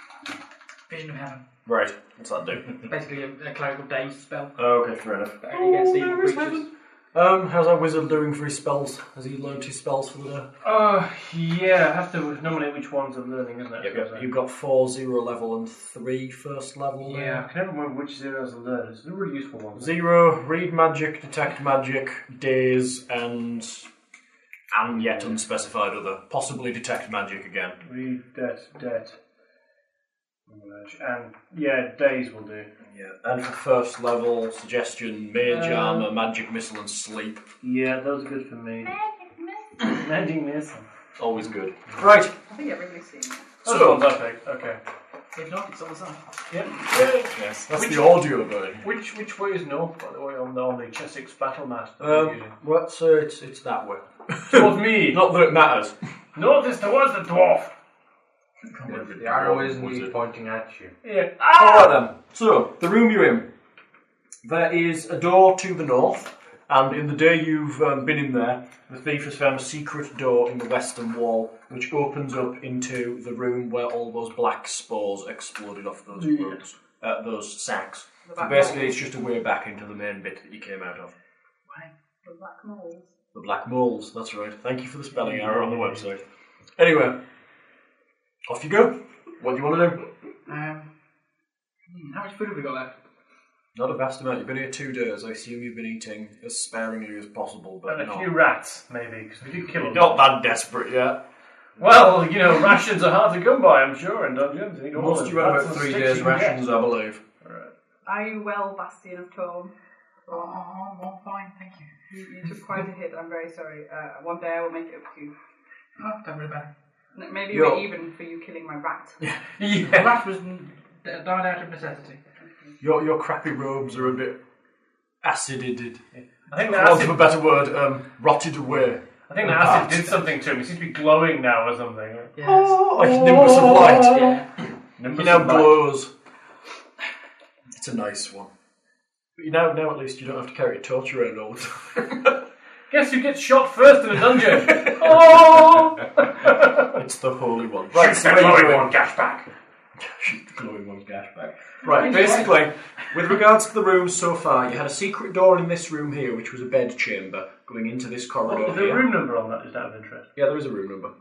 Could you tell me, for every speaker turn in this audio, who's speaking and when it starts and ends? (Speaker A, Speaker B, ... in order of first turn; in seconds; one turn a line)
Speaker A: 0.9-1.4
Speaker B: 1.6-2.8
Speaker A: 2.8-4.5
Speaker B: 4.6-10.5
Speaker A: 5.4-6.7
Speaker C: 10.6-14.3
Speaker B: 13.8-17.4
Speaker C: 17.0-19.9
Speaker B: 19.7-23.9
Speaker B: 24.7-27.8
Speaker C: 25.0-25.4
Speaker C: 27.8-29.2
Speaker C: 30.5-32.7
Speaker B: 32.8-37.4
Speaker C: 35.5-36.0
Speaker C: 37.6-38.9
Speaker D: 38.8-39.9
Speaker C: 39.8-40.9
Speaker B: 41.2-42.3
Speaker D: 42.5-43.4
Speaker B: 43.6-44.1
Speaker C: 43.6-44.8
Speaker A: 45.3-46.3
Speaker C: 46.5-52.5
Speaker B: 46.9-48.9
Speaker B: 52.0-56.0
Speaker C: 54.5-55.2
Speaker C: 56.3-57.7
Speaker B: 58.7-60.1
Speaker E: 58.9-61.0
Speaker C: 61.0-62.0
Speaker B: 61.5-63.5
Speaker B: 64.4-81.1
Speaker C: 76.2-76.5
Speaker D: 78.2-79.0
Speaker D: 82.2-83.1
Speaker B: 83.3-86.2
Speaker C: 85.2-86.0
Speaker B: 86.8-87.2
Speaker B: 88.5-90.0
Speaker A: 90.5-90.8
Speaker A: 91.9-92.9
Speaker B: 93.7-98.3
Speaker C: 97.8-100.2
Speaker B: 99.9-101.2
Speaker C: 101.8-106.7
Speaker B: 104.9-107.2
Speaker C: 107.4-107.7
Speaker D: 108.0-109.7
Speaker D: 110.3-110.6
Speaker A: 110.3-111.9
Speaker D: 112.1-115.3
Speaker A: 116.0-116.7
Speaker D: 117.1-119.2
Speaker B: 117.5-117.8
Speaker C: 119.6-120.0
Speaker A: 119.8-122.2
Speaker B: 122.8-124.4
Speaker B: 125.2-126.0
Speaker C: 126.1-127.3
Speaker B: 126.5-130.2
Speaker C: 129.3-132.4
Speaker A: 132.3-134.5
Speaker B: 132.4-134.5
Speaker C: 133.3-133.7
Speaker C: 135.0-135.9
Speaker B: 135.1-136.1
Speaker B: 137.7-138.5
Speaker B: 139.3-142.4
Speaker C: 142.9-147.0
Speaker B: 146.9-149.0
Speaker C: 147.9-149.5
Speaker B: 150.0-159.1
Speaker A: 151.9-152.5
Speaker C: 151.9-152.3
Speaker C: 158.4-160.3
Speaker B: 160.3-161.1